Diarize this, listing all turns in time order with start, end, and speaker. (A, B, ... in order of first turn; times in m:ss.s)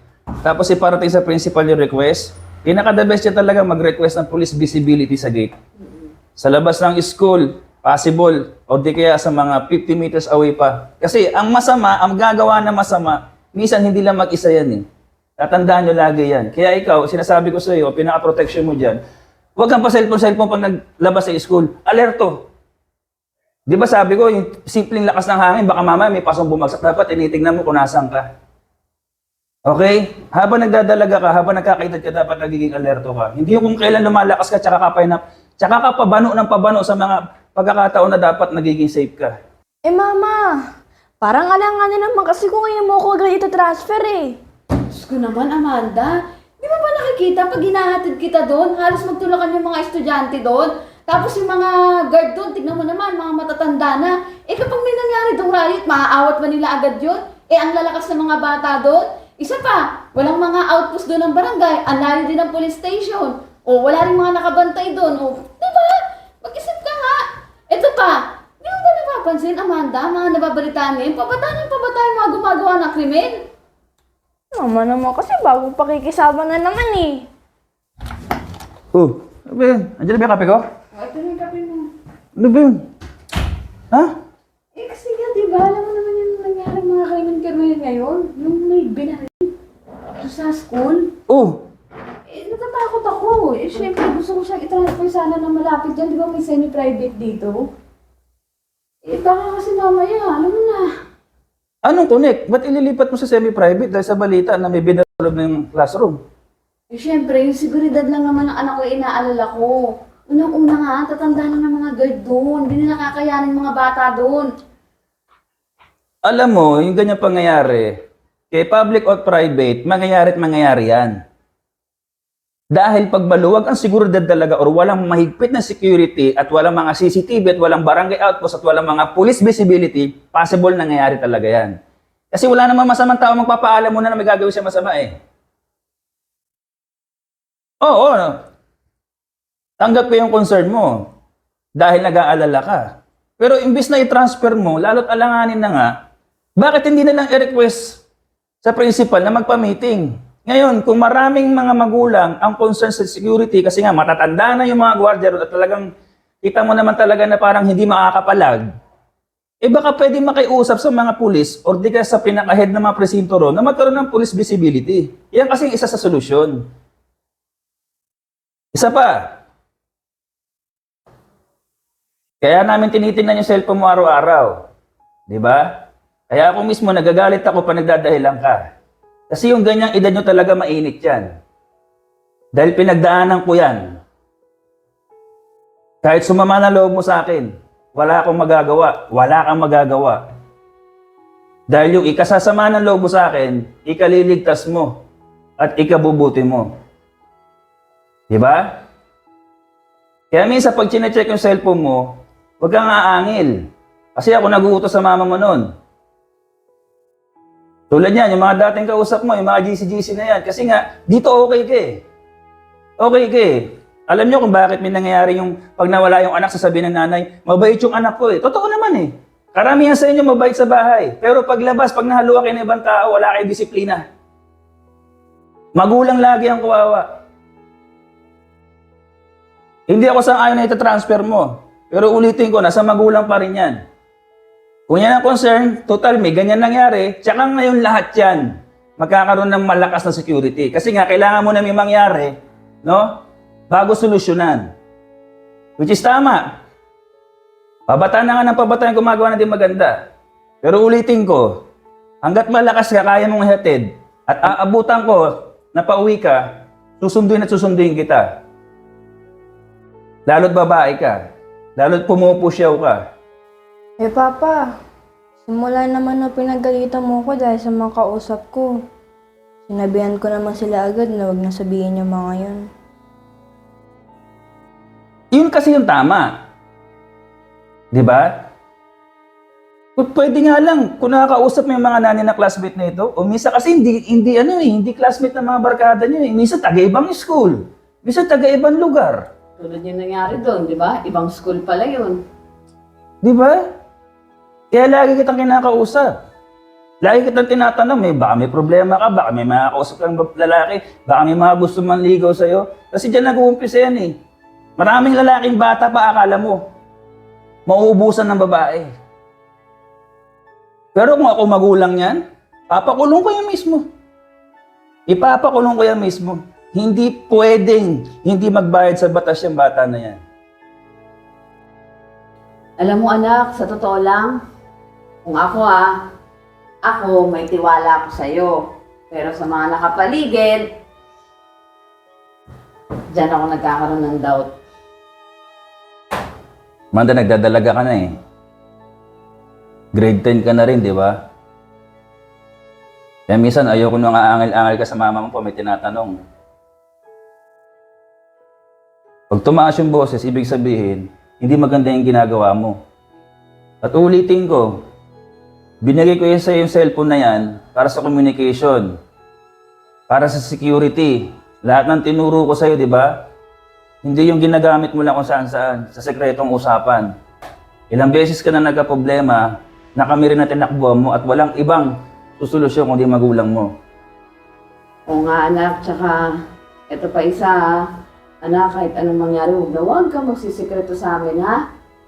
0:00.4-0:05.5 A
0:06.4-0:14.8 A
0:15.4-0:19.0 A
0:19.6-0:22.3 A
0:23.7-0:28.2 A
0:29.7-0:39.3 A
0:39.9-0:40.6 B
0:41.2-0:44.4 B
0:44.9-1:13.4 C
1:14.5-1:17.3 B
1:18.9-1:20.6 A
1:20.9-1:21.9 C
1:22.4-1:22.8 A
1:24.8-1:29.5 C
1:30.2-1:31.1 C
1:31.3-1:31.6 A
1:32.3-1:37.7 C
1:39.0-1:40.9 C
1:41.8-1:46.2 A
1:46.9-1:54.5 C
1:56.2-1:57.9 A
1:58.5-2:01.1 A
2:02.7-2:11.7 A
2:12.3-2:15.1 A
2:17.8-2:18.4 A
2:19.8-2:21.0 A
2:21.8-2:22.8 A
2:23.4-2:25.9 A
2:26.6-2:28.0 A
2:28.6-2:35.9 A
2:36.4-2:38.6 A
2:39.6-2:46.6 A
2:48.7-2:49.2 A
2:52.4-2:54.5 A
2:55.3-2:55.7 A
2:56.3-2:58.7 A
2:59.3-3:01.3 A
3:02.6-3:03.8 A
3:06.0-3:10.2 A
3:11.7-3:14.9 A
3:15.6-3:16.7 A
3:18.3-3:18.7 A
3:20.3-3:22.0 A
3:22.6-3:23.5 A
3:24.1-3:25.6 A
3:27.9-3:32.0 A
3:33.0-3:44.0 A
3:45.8-3:47.0 A
3:49.9-3:53.8 A
3:54.9-3:58.4 A
3:59.0-4:02.3 A
4:03.7-4:04.6 A
4:05.8-4:06.4 A
4:07.9-4:09.9 A
4:10.6-4:11.5 A
4:12.2-4:16.4 A
4:17.0-4:18.2 A
4:20.3-4:21.2 A
4:21.8-4:23.0 A
4:24.0-4:24.6 B
4:25.5-4:28.7 B
4:29.7-4:32.6 B
4:35.3-4:36.3 A
4:37.9-4:38.3 A
4:40.0-4:49.2 A
4:49.6-4:52.2 C
4:53.2-4:53.6 A
4:54.7-4:56.1 A
4:57.0-5:04.1 A
5:04.8-5:06.6 A
5:07.7-5:08.9 A
5:10.9-5:13.8 A
5:15.1-5:20.2 A
5:22.8-5:24.3 C
5:25.2-5:25.9 C
5:26.9-5:28.6 C
5:29.1-5:30.7 C
5:33.1-5:34.5 C
5:36.9-5:38.2 A
5:39.9-5:41.1 A
5:43.3-5:46.2 A
5:49.3-5:52.8 A
5:53.8-5:54.8 A
5:55.8-5:58.9 A
6:00.1-6:03.1 A
6:04.0-6:07.1 A
6:07.9-6:13.7 A
6:15.1-6:16.3 C
6:16.9-6:17.6 C
6:18.4-6:21.6 C